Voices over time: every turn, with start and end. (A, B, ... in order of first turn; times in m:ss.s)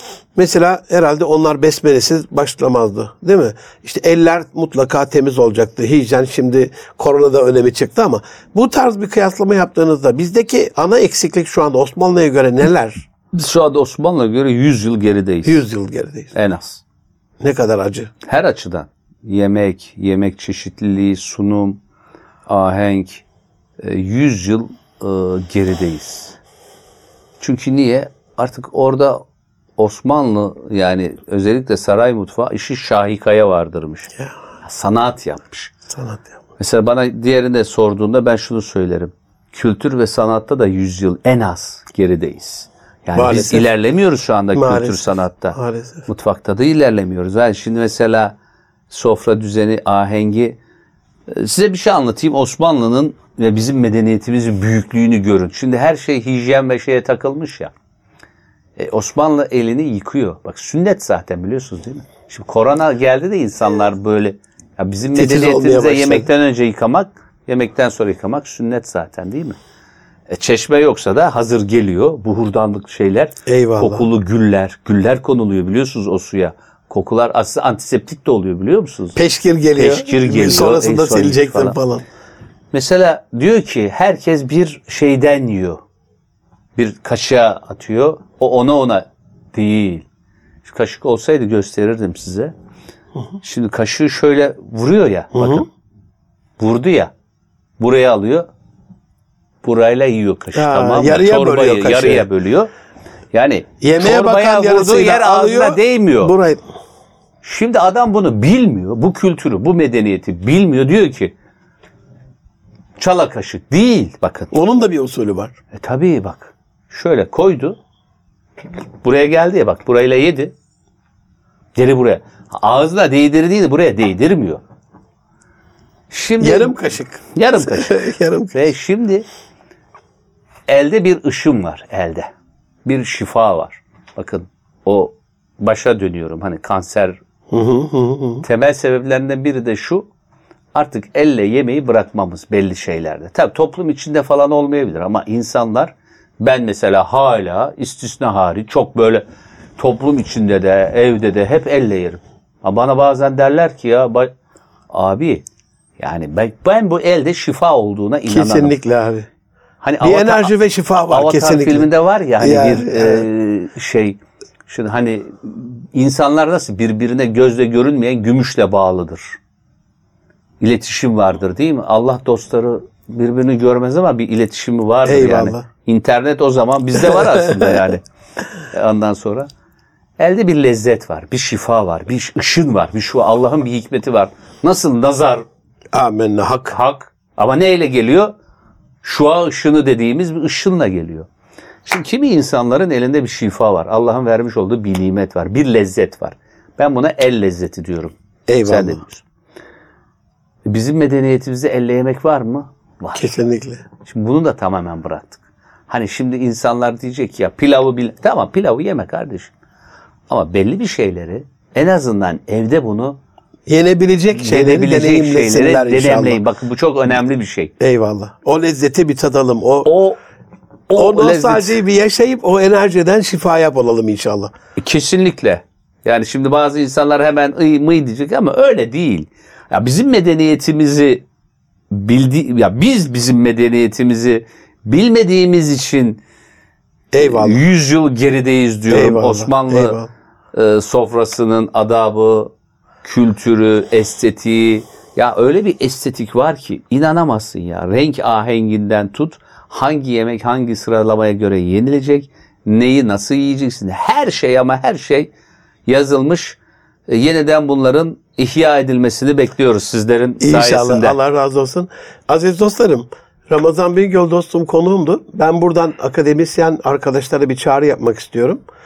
0:00.4-0:13.1 A
0:13.3-0:15.6 B
0:15.4-0:16.3 A
0:16.3-0:16.8 B
0:17.4-0:18.1 A
0:18.2-0:21.8 B
0:22.5-0:23.2 B
0:23.8-0:26.4 B
0:27.4-0:29.2 B
0:29.8-0:35.7 B
0:35.9-0:36.3 A
0:36.6-0:48.3 B
0:43.1-0:43.7 A
0:44.5-0:46.0 A
0:48.9-0:50.6 B
0:51.3-0:57.7 B
0:58.8-1:09.6 B
1:05.1-1:06.3 A
1:10.3-1:19.2 B
1:13.4-1:14.0 A
1:19.2-1:22.0 A
1:19.8-1:21.8 B
1:22.7-1:25.8 B
1:26.8-1:30.0 B
1:30.6-1:32.5 B
1:33.4-1:35.6 B
1:35.3-1:35.6 A
1:36.6-1:37.1 B
1:37.8-1:38.5 B
1:39.6-1:42.7 B
1:40.5-1:42.3 A
1:43.3-1:46.3 B
1:43.8-1:46.6 A
1:47.4-1:51.3 B
1:53.0-1:54.5 B
1:54.5-1:55.5 A
1:55.7-1:57.8 B
1:59.0-2:00.5 B
2:01.7-2:04.6 B
2:06.1-2:06.8 B
2:06.4-2:08.6 A
2:07.3-2:08.0 B
2:08.5-2:09.2 B
2:10.7-2:12.3 B
2:12.8-2:17.2 B
2:17.5-2:18.4 A
2:18.4-2:20.1 B
2:20.7-2:29.2 B
2:29.8-2:34.3 B
2:34.9-2:35.4 B
2:36.0-2:38.7 B
2:38.3-2:39.3 A
2:39.8-2:40.5 B
2:40.0-2:41.9 A
2:41.1-2:49.4 B
2:42.4-2:43.2 A
2:50.6-2:58.0 B
2:55.0-2:55.7 A
2:57.1-2:57.8 A
2:58.7-2:59.5 B
3:00.2-3:05.4 B
3:05.9-3:06.8 A
3:06.7-3:08.3 B
3:09.0-3:11.3 B
3:11.9-3:19.2 B
3:18.5-3:19.0 A
3:20.6-3:23.3 B
3:23.1-3:23.8 A
3:24.0-3:29.5 B
3:30.3-3:33.2 B
3:33.7-3:36.4 A
3:34.3-3:37.7 B
3:37.8-3:39.9 A
3:39.8-3:40.2 B
3:40.9-3:41.8 B
3:41.0-3:44.5 A
3:44.8-3:51.2 B
3:51.9-3:56.2 B
3:57.1-3:57.6 A
3:57.2-4:00.0 B
3:58.9-4:00.1 A
4:00.5-4:02.5 B
4:03.0-4:15.3 B
4:15.9-4:21.2 B
4:20.4-4:28.6 A